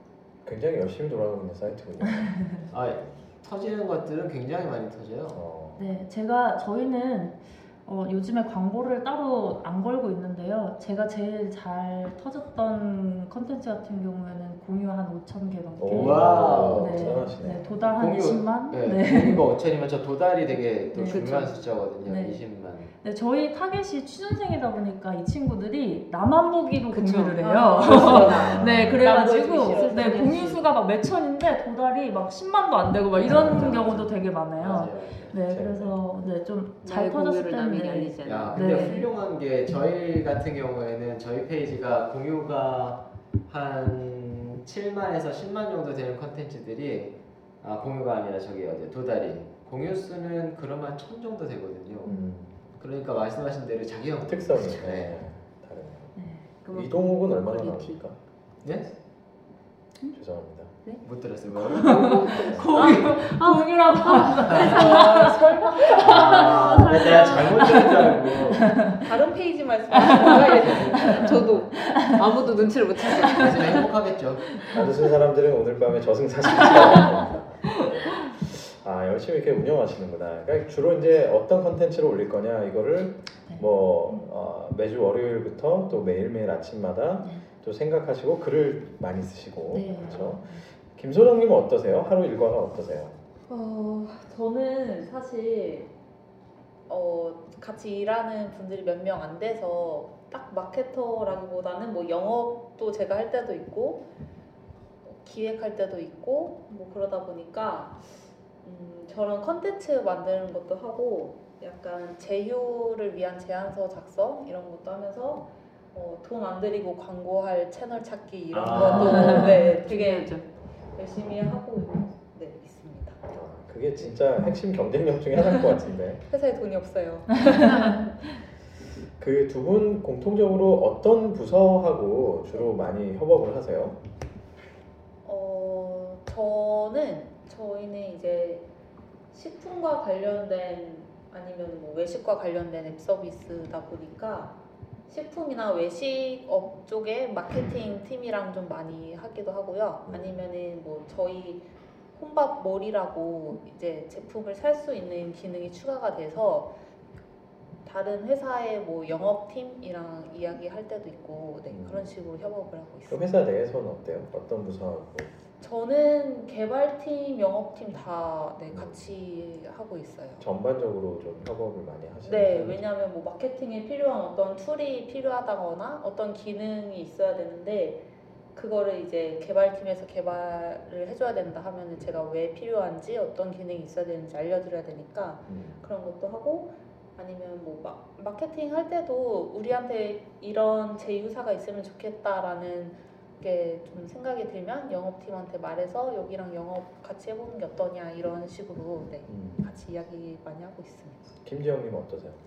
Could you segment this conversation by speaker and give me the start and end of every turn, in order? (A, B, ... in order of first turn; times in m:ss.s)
0:00.4-0:03.2 A
0:02.7-0:05.4 B
0:05.3-0:06.0 A
0:05.8-0:19.4 C
0:15.8-0:17.7 A
0:15.9-0:17.3 B
0:17.8-0:22.9 B
0:20.9-0:21.5 C
0:21.1-0:21.6 D
0:22.0-0:39.1 C
0:26.9-0:30.6 D
0:27.4-0:30.6 E
0:28.2-0:29.0 A
0:33.2-0:34.0 A
0:33.2-0:34.0 D
0:33.3-0:35.4 B
0:35.5-0:36.0 A
0:36.8-0:39.1 D
0:38.2-0:52.2 B
0:52.1-0:52.6 A
0:52.8-0:55.2 B
0:54.3-0:58.2 A
0:56.2-0:56.5 C
0:56.6-0:58.0 D
0:58.6-0:58.9 B
1:00.1-1:00.7 A
1:01.0-1:03.3 B
1:01.6-1:09.0 C
1:01.7-1:08.2 D
1:02.5-1:03.0 A
1:04.2-1:04.9 B
1:04.6-1:06.2 E
1:06.0-1:08.9 B
1:09.0-1:11.3 E
1:09.9-1:13.9 D
1:10.0-1:11.3 C
1:10.5-1:11.4 B
1:11.3-1:11.8 A
1:11.9-1:12.2 C
1:13.1-1:14.7 B
1:14.6-1:14.8 C
1:14.7-1:33.2 A
1:16.6-1:17.0 C
1:29.7-1:30.6 C
1:33.5-1:35.9 E
1:36.9-1:44.1 E
1:45.0-1:48.1 E
1:48.6-2:03.3 E
1:58.5-1:59.6 B
1:58.7-2:00.5 D
2:03.3-2:06.2 A
2:06.3-2:08.0 E
2:07.4-2:08.0 C
2:09.2-2:14.0 A
2:15.2-2:18.7 E
2:19.3-2:24.6 E
2:25.1-2:36.7 E
2:30.1-2:30.4 A
2:37.8-2:43.3 E
2:41.7-2:42.2 A
2:43.1-2:45.3 A
2:45.6-2:50.4 E
2:48.7-2:49.1 A
2:50.4-2:52.8 A
2:52.2-2:58.0 E
2:58.5-3:21.3 E
3:05.5-3:05.8 A
3:19.3-3:19.7 A
3:21.4-3:22.4 A